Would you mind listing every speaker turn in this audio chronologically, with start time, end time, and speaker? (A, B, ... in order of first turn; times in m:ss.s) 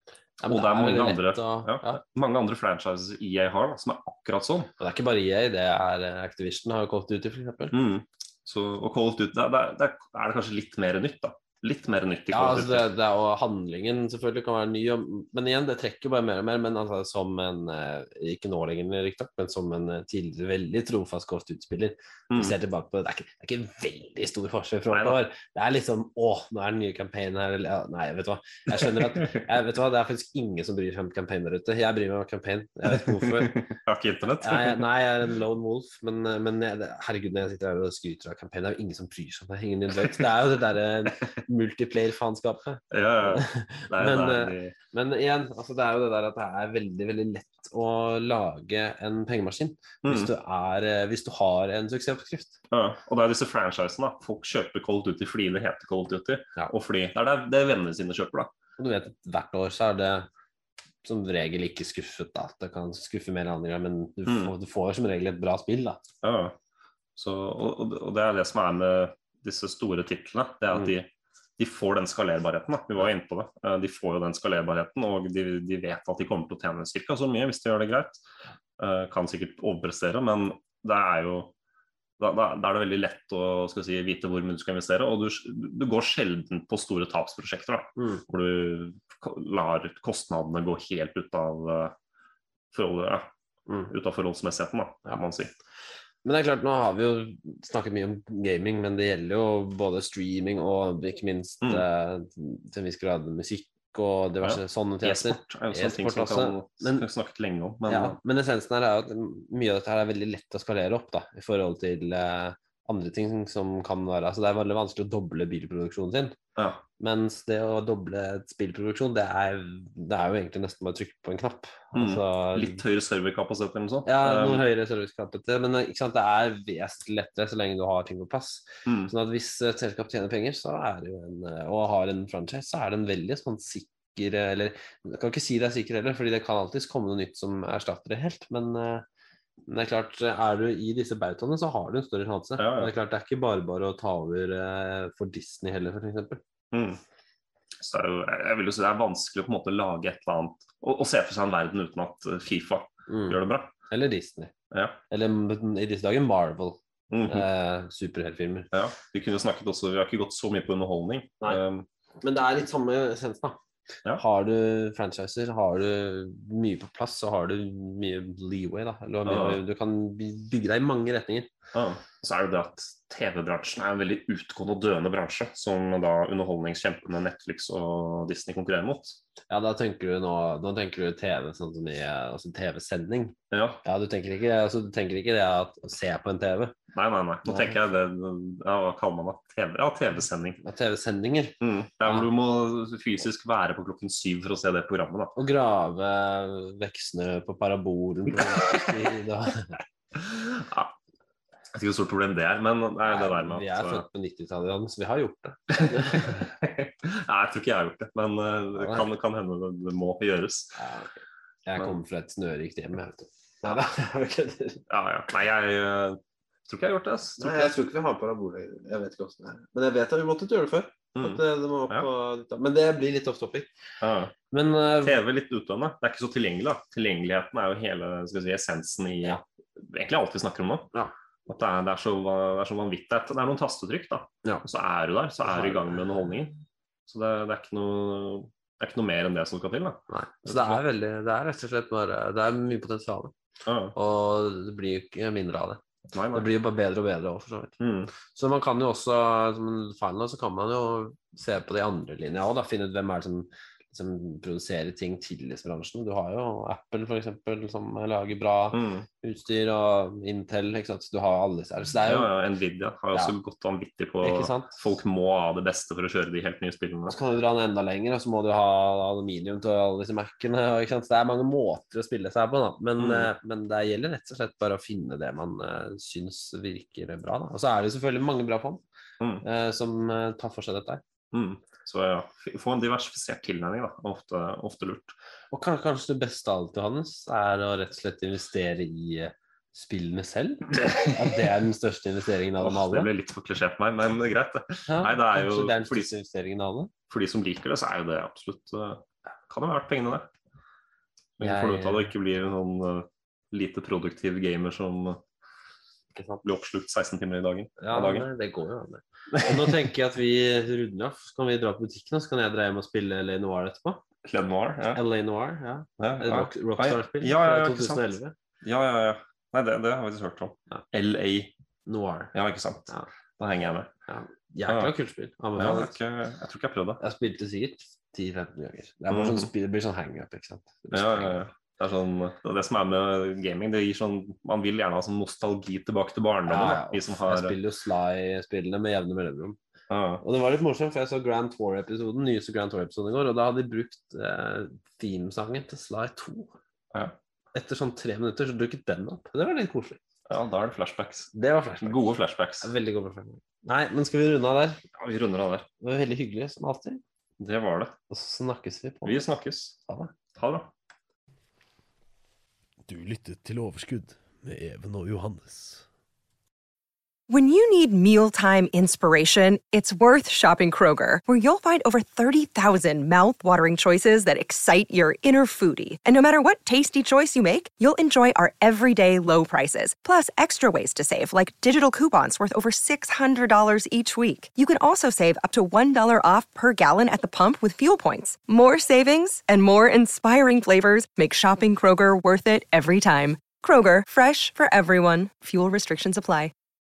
0:00.4-0:02.0 A
0:00.5-0:04.7 B
0:04.8-0:07.8 A
0:07.7-0:12.9 B
0:12.3-0:33.5 A
0:22.3-0:22.6 B
0:24.9-0:25.2 B
0:28.8-0:29.4 B
0:32.9-0:34.9 B
0:34.4-0:52.6 A
0:39.9-0:40.3 B
0:42.9-0:44.8 B
0:50.0-0:50.3 B
0:52.7-0:58.5 B
0:58.8-1:00.3 A
1:01.0-1:06.0 A
1:04.3-1:04.5 B
1:06.2-1:06.6 B
1:07.2-1:18.2 B
1:18.8-1:21.5 B
1:22.2-1:32.0 B
1:28.0-1:28.2 A
1:32.7-1:33.3 B
1:33.9-1:35.5 B
1:36.2-1:47.0 A
1:44.4-1:48.2 B
1:47.9-1:56.4 A
1:56.6-1:56.8 B
1:57.0-2:02.8 A
2:01.9-2:04.6 B
2:04.1-2:19.0 A
2:08.9-2:09.1 B
2:19.7-2:26.4 A
2:22.6-2:22.9 B
2:26.7-2:27.0 B
2:27.8-2:33.7 B
2:33.1-2:33.4 A
2:33.9-2:34.5 A
2:34.7-2:35.0 B
2:35.1-2:36.8 A
2:37.1-2:37.5 B
2:37.3-2:38.7 A
2:38.7-2:41.8 B
2:42.2-2:43.6 A
2:44.2-2:51.5 A
2:49.3-2:49.6 B
2:51.7-2:59.2 B
2:59.5-3:06.8 A
3:03.5-3:03.8 B
3:06.9-3:10.6 B
3:07.4-3:07.8 A
3:10.6-3:12.3 A
3:11.6-3:15.4 B
3:15.4-3:19.8 A
3:20.2-3:20.9 B
3:21.7-3:24.0 B
3:23.0-3:26.5 A
3:25.8-3:30.8 B
3:28.8-3:29.0 A
3:30.8-3:34.8 A
3:34.9-3:37.8 B
3:37.4-3:43.7 A
3:41.2-3:42.1 B
3:44.0-3:44.3 B
3:44.5-3:45.2 A
3:45.0-3:50.9 B
3:51.5-4:00.8 B
3:55.5-3:55.8 A
4:00.1-4:03.3 A
4:03.7-4:04.0 B
4:04.0-4:05.8 A
4:06.1-4:06.5 B
4:06.3-4:22.3 A
4:07.8-4:08.1 B
4:18.7-4:19.1 B
4:22.0-4:27.2 B
4:24.2-4:24.8 A
4:27.1-4:38.8 A
4:33.0-4:33.3 B
4:39.4-4:41.0 A
4:41.3-4:45.2 B
4:45.5-4:53.1 A
4:52.6-4:56.1 B
4:54.9-4:56.9 A
4:57.1-5:00.3 B
5:01.4-5:05.2 B
5:01.4-5:02.1 A
5:06.2-5:06.4 A
5:06.4-5:08.3 B
5:07.8-5:14.0 A
5:09.4-5:09.8 B
5:14.2-5:15.0 B
5:15.0-5:18.3 A
5:16.0-5:21.5 B
5:21.9-5:22.3 A
5:22.3-5:23.9 B
5:24.1-5:25.9 A
5:24.7-5:24.9 B
5:25.6-5:27.0 B
5:27.0-5:31.4 A
5:29.1-5:29.5 B
5:30.9-5:37.6 B
5:36.5-5:39.6 A
5:39.9-5:40.2 B
5:40.2-5:46.6 A
5:47.5-5:50.0 A
5:50.3-5:52.7 B
5:51.4-5:52.0 A
5:52.6-5:54.8 A
5:54.9-5:55.7 B
5:55.8-5:57.0 A
5:57.4-5:58.0 B
5:58.1-5:59.2 A
5:59.0-5:59.8 B
6:00.4-6:00.7 B
6:02.9-6:05.9 C
6:07.3-6:36.5 D